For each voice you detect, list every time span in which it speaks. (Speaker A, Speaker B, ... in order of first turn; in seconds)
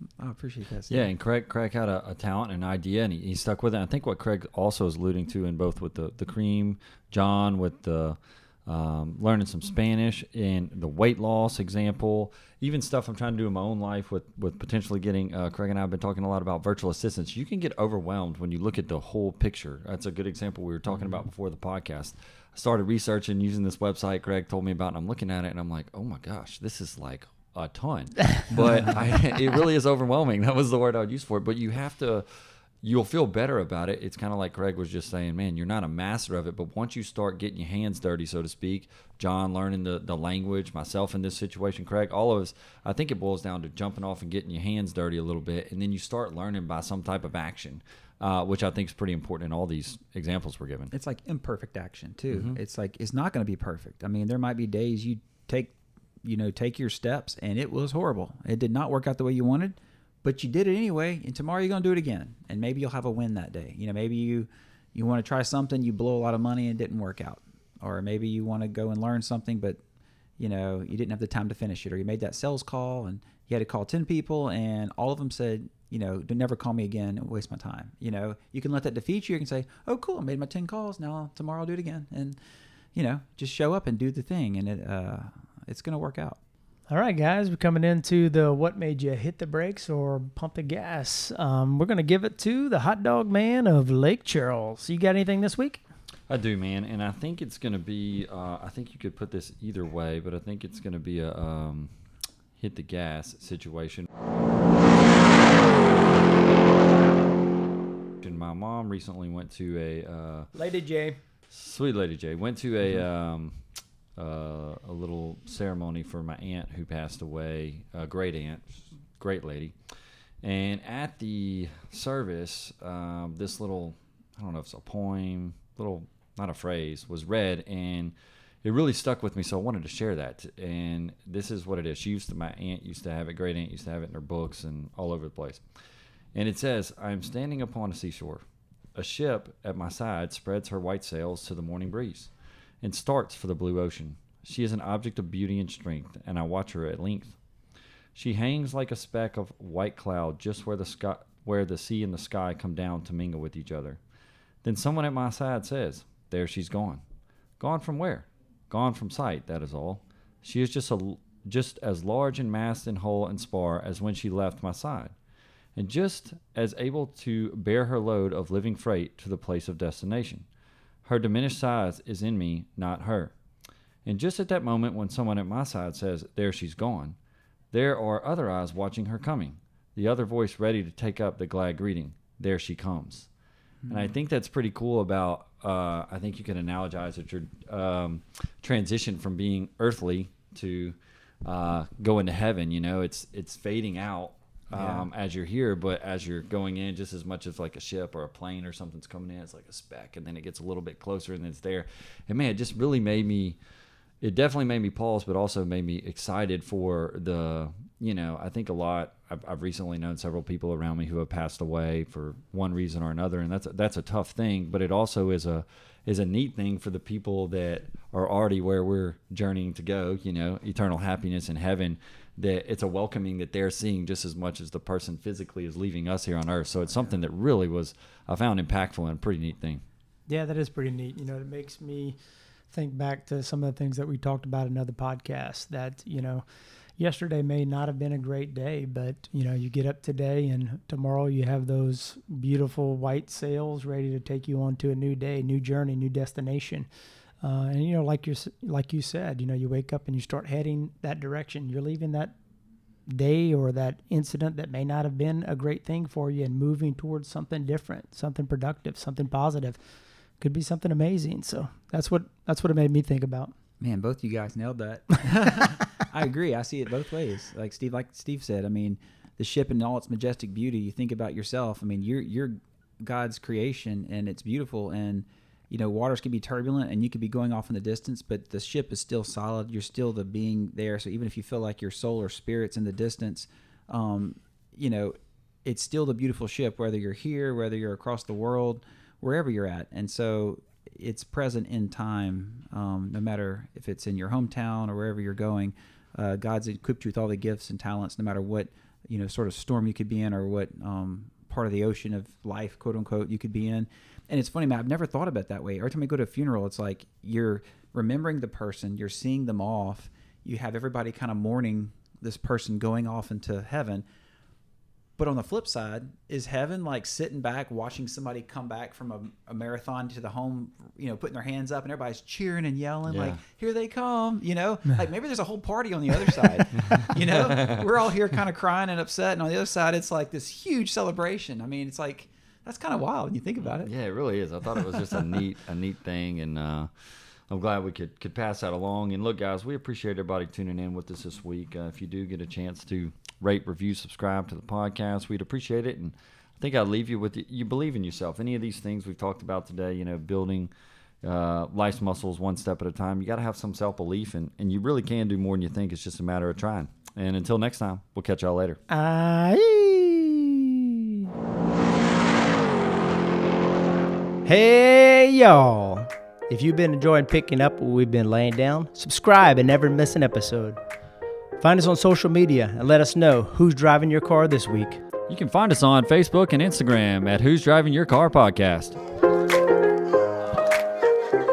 Speaker A: 0.2-1.1, 50.9-69.8, 70.4-82.4, 83.0-86.4, 183.8-184.1, 194.7-195.1, 263.8-314.0, 315.2-333.9
Speaker B: 0.9-32.2, 32.8-50.9, 52.3-52.6, 96.3-101.9, 102.6-104.1, 108.2-110.5, 111.5-113.6, 114.2-119.8, 120.4-135.6, 136.3-142.3, 142.8-147.4, 148.2-154.0, 154.6-157.0, 157.6-165.1, 165.8-170.5, 171.1-173.3, 174.1-177.2, 177.7-183.3, 183.9-203.6, 204.2-229.8, 323.1-323.4, 326.8-328.0, 333.6-336.9, 337.5-350.7, 351.2-358.8, 375.3-379.0
Speaker C: 86.9-95.8, 110.5-111.2, 230.3-232.2, 232.7-236.4, 237.0-246.9, 247.4-252.3, 253.1-259.8, 260.4-263.5, 358.9-361.0, 364.4-370.8, 371.6-375.0